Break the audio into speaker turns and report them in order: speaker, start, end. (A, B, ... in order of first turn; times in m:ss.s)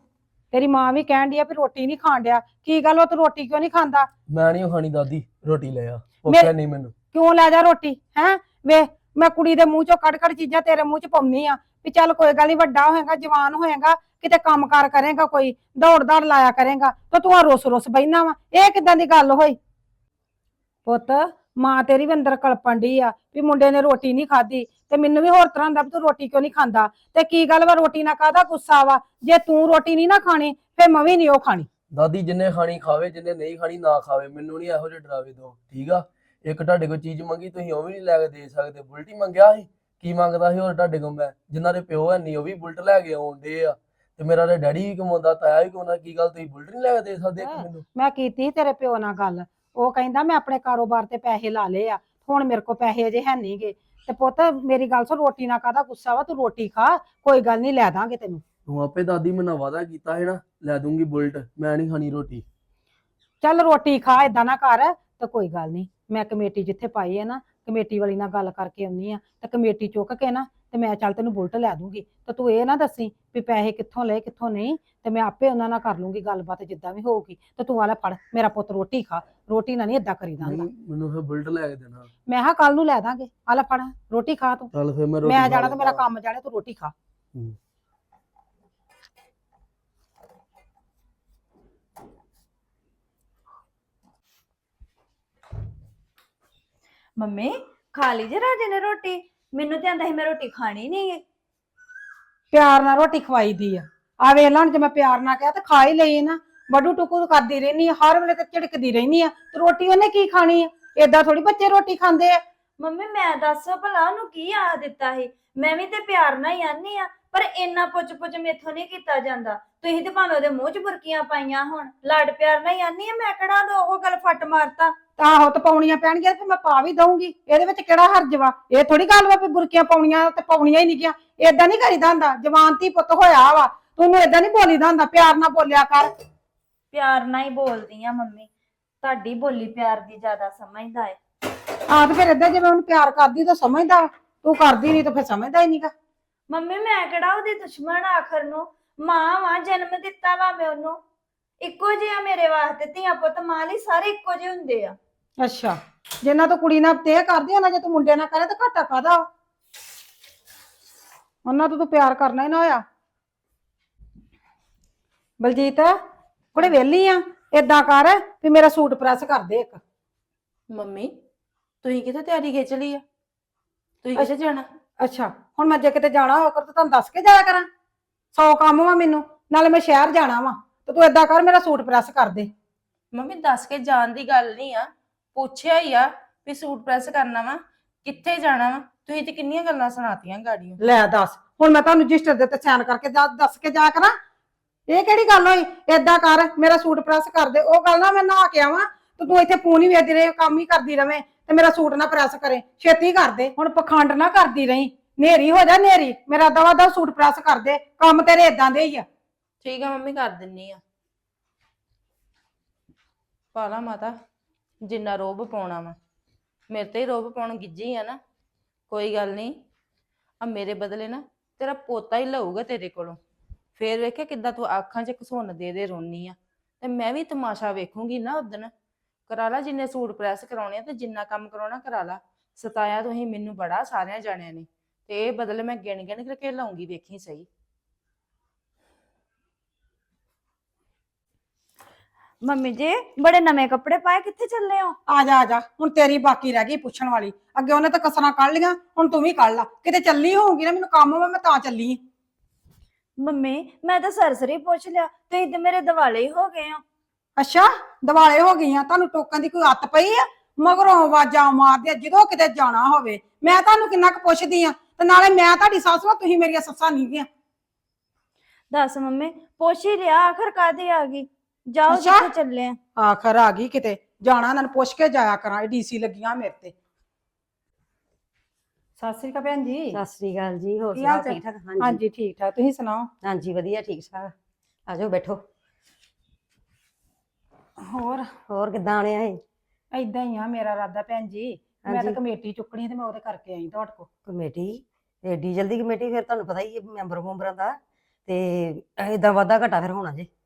0:00.5-0:04.1 A
0:04.3-0:06.9 B
0:06.3-0:06.5 A
0:07.1-0:19.6 A
0:20.9-0:31.7 A
0:31.9-0:47.8 B
0:47.4-0:58.4 A
0:58.7-1:02.4 B
1:03.4-1:20.6 A
1:20.4-1:22.1 B
1:22.3-1:24.7 A
1:24.7-1:26.0 B
1:25.2-1:26.9 A
1:37.2-1:41.2 C
1:42.5-1:52.4 A
1:52.8-2:05.0 C
2:05.2-2:16.1 A
2:16.9-2:18.5 C
2:19.0-2:21.2 C
2:21.9-2:25.9 A
2:26.5-2:30.9 C
2:31.6-2:35.0 C
2:35.4-2:39.3 A
2:41.4-2:42.8 A
2:45.4-2:45.9 A
2:46.6-2:49.8 A
2:50.7-2:51.1 D
2:51.8-2:53.0 D
2:54.0-2:54.6 D
2:55.0-2:57.7 A
2:58.3-3:02.5 A
3:03.1-3:10.8 D
3:10.8-3:14.1 A
3:14.9-3:29.0 A
3:29.6-3:30.8 D
3:33.5-3:34.1 D
3:34.8-3:36.0 D
3:36.7-3:38.2 D
3:38.9-3:39.5 D
3:40.4-3:43.2 D
3:43.8-3:48.7 D
3:49.3-3:57.5 D
4:02.4-4:05.0 C
4:05.1-4:12.0 A
4:13.2-4:16.8 C
4:17.4-4:27.3 A
4:28.7-4:32.8 C
4:31.9-4:32.3 A
4:33.0-4:36.7 A
4:39.0-4:40.0 A
4:39.9-4:42.0 E
4:40.9-4:43.1 A
4:43.2-4:44.3 E
4:44.9-4:45.4 E
4:47.9-4:48.3 A
4:48.5-4:49.4 E
4:49.9-4:54.1 A
4:51.8-4:52.2 E
4:54.2-5:00.3 E